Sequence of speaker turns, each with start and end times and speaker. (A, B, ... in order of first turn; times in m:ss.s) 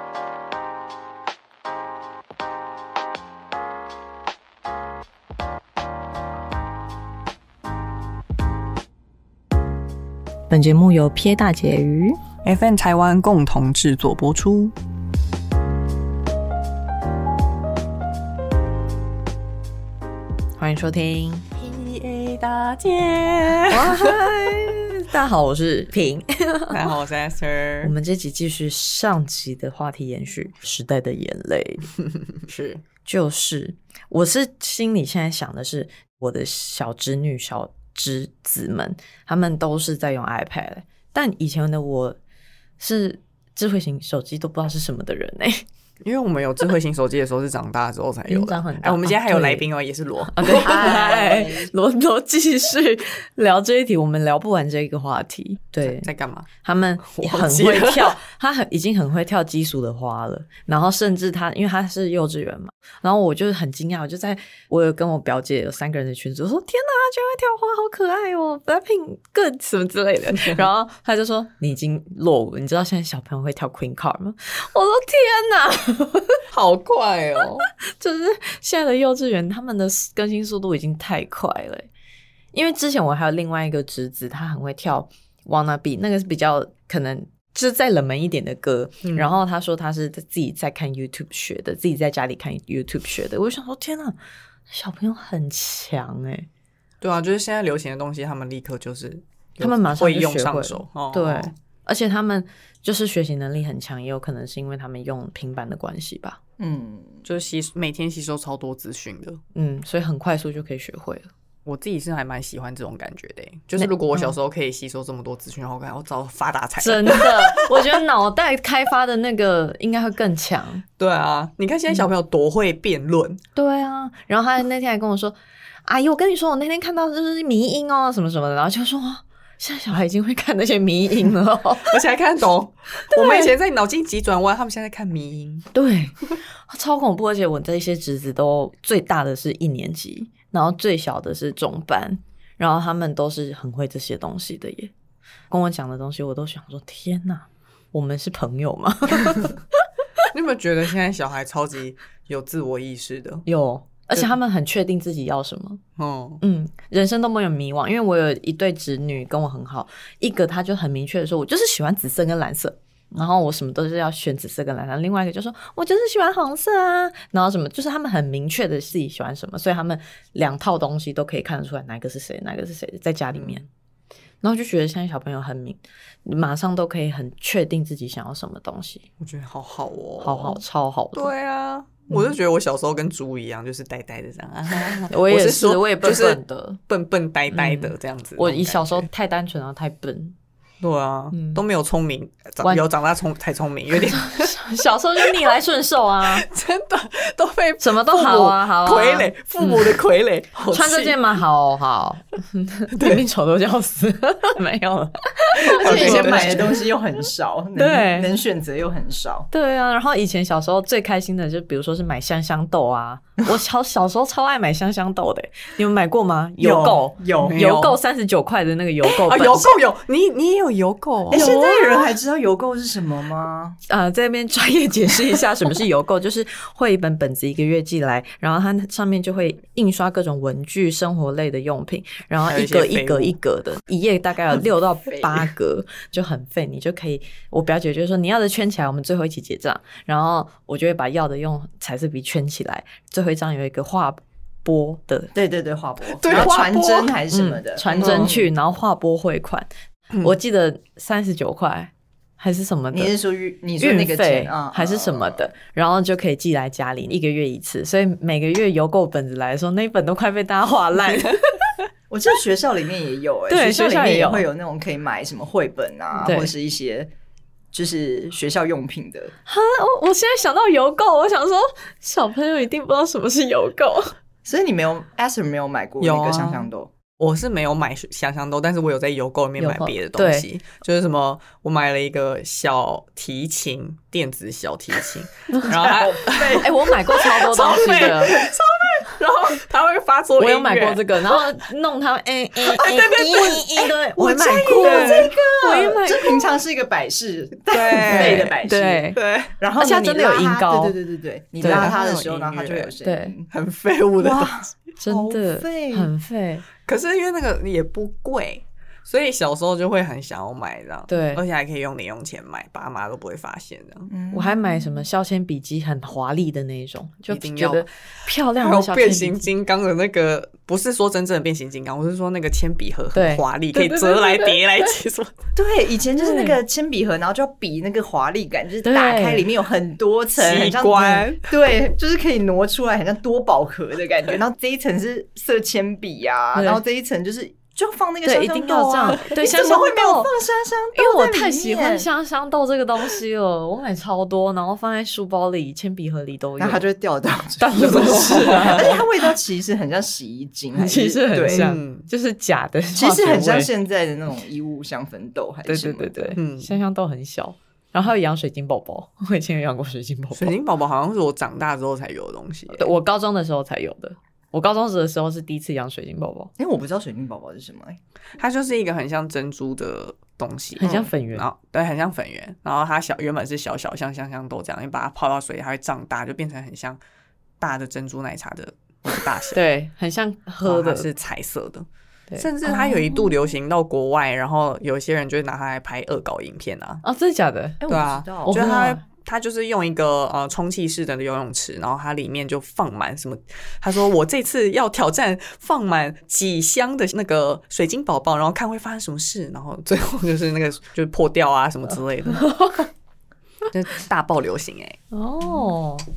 0:10.5-0:12.2 A
0:12.4-0:14.7 B
0:20.6-0:21.5 A
0:21.6-0:24.2 B
0:23.7-0:26.8 A
0:26.7-0:27.9 B
0:27.8-0:31.9 A
0:32.4-0:32.8 B
0:33.0-0:42.2 A
0:42.8-0:45.7 A
0:46.0-0:50.6 B
0:48.3-0:49.7 A
0:50.3-0:56.1 A
0:50.5-0:51.7 C
0:55.8-0:56.5 B
0:56.6-1:16.4 A
0:57.1-0:58.2 B
1:10.3-1:10.6 B
1:16.5-1:17.7 B
1:17.9-1:21.9 A
1:22.5-1:34.2 A
1:29.0-1:29.3 B
1:34.7-1:36.5 A
1:37.0-1:41.5 B
1:39.6-1:46.4 A
1:46.6-1:47.2 C
1:47.2-1:49.4 B
1:49.5-1:51.3 A
1:51.7-1:58.0 B
1:53.8-1:54.4 A
1:56.8-2:00.8 A
2:01.0-2:03.4 B
2:03.6-2:12.0 A
2:11.9-2:15.7 B
2:13.1-2:13.5 A
2:15.7-2:24.9 A
2:25.5-2:29.6 A
2:30.3-2:33.5 B
2:33.5-2:35.8 A
2:36.0-2:36.4 B
2:36.4-2:53.6 A
2:53.3-2:53.6 B
2:54.4-2:59.1 A
2:59.2-3:00.6 B
3:00.2-3:01.3 A
3:01.1-3:09.1 B
3:02.1-3:02.4 A
3:04.8-3:06.8 A
3:07.5-3:10.4 A
3:10.8-3:14.5 B
3:11.3-3:11.6 A
3:14.0-3:16.5 A
3:15.2-3:15.5 B
3:16.3-3:21.2 B
3:17.8-3:20.0 A
3:20.7-3:26.8 A
3:22.9-3:23.2 B
3:25.7-3:29.5 C
3:25.7-3:26.7 B
3:27.8-3:28.3 A
3:29.5-3:39.8 A
3:36.6-3:37.6 C
3:37.5-3:38.0 B
3:39.0-3:41.5 B
3:41.3-3:42.1 A
3:41.3-3:43.8 C
3:43.9-4:05.3 A
3:52.5-3:53.4 B
4:05.3-4:08.5 C
4:06.2-4:07.1 B
4:06.3-4:09.7 A
4:08.0-4:08.3 B
4:10.2-4:13.1 A
4:12.9-4:15.5 C
4:13.8-4:21.4 A
4:22.1-4:27.1 C
4:23.5-4:24.5 A
4:26.2-4:26.5 A
4:27.7-4:29.3 C
4:29.5-4:34.2 A
4:34.4-4:36.9 C
4:36.0-4:51.4 B
4:39.6-4:40.5 A
4:45.6-4:46.7 C
4:46.6-4:48.4 A
4:50.4-4:56.4 A
4:52.6-4:53.9 B
4:54.2-4:59.0 C
4:54.7-4:55.3 B
4:57.7-4:58.6 B
4:58.1-4:59.2 A
4:59.2-4:59.5 B
4:59.6-5:03.5 C
4:59.8-5:01.0 A
5:01.6-5:01.9 A
5:01.6-5:02.9 B
5:03.0-5:03.3 A
5:03.5-5:04.6 B
5:04.2-5:06.1 C
5:05.0-5:06.6 A
5:06.9-5:14.1 B
5:11.1-5:11.4 A
5:14.1-5:15.1 C
5:14.3-5:19.5 A
5:17.3-5:17.9 B
5:18.6-5:25.4 B
5:23.1-5:24.9 A
5:25.6-5:42.1 C
5:26.2-5:26.6 A
5:28.8-5:29.4 A
5:30.3-5:31.5 B
5:36.5-5:36.8 A
5:38.2-5:40.3 A
5:41.0-5:46.8 A
5:46.6-5:51.6 C
5:47.6-5:49.0 A
5:47.8-5:48.9 B
5:50.8-5:53.7 A
5:51.4-5:52.1 B
5:53.0-5:56.4 C
5:55.7-6:00.6 A
5:56.4-5:56.7 B
6:00.3-6:02.9 B
6:02.7-6:06.5 A
6:06.6-6:08.0 C
6:08.4-6:17.0 B
6:10.8-6:11.5 A
6:10.8-6:11.1 C
6:17.6-6:19.6 B
6:19.5-6:21.1 A
6:20.6-6:21.9 B
6:22.3-6:23.3 A
6:22.4-6:27.0 B
6:27.0-6:27.8 A
6:27.8-6:28.7 C
6:27.9-6:42.6 B
6:28.4-6:29.0 A
6:42.3-6:42.8 A
6:43.7-6:45.0 B
6:45.1-6:46.1 A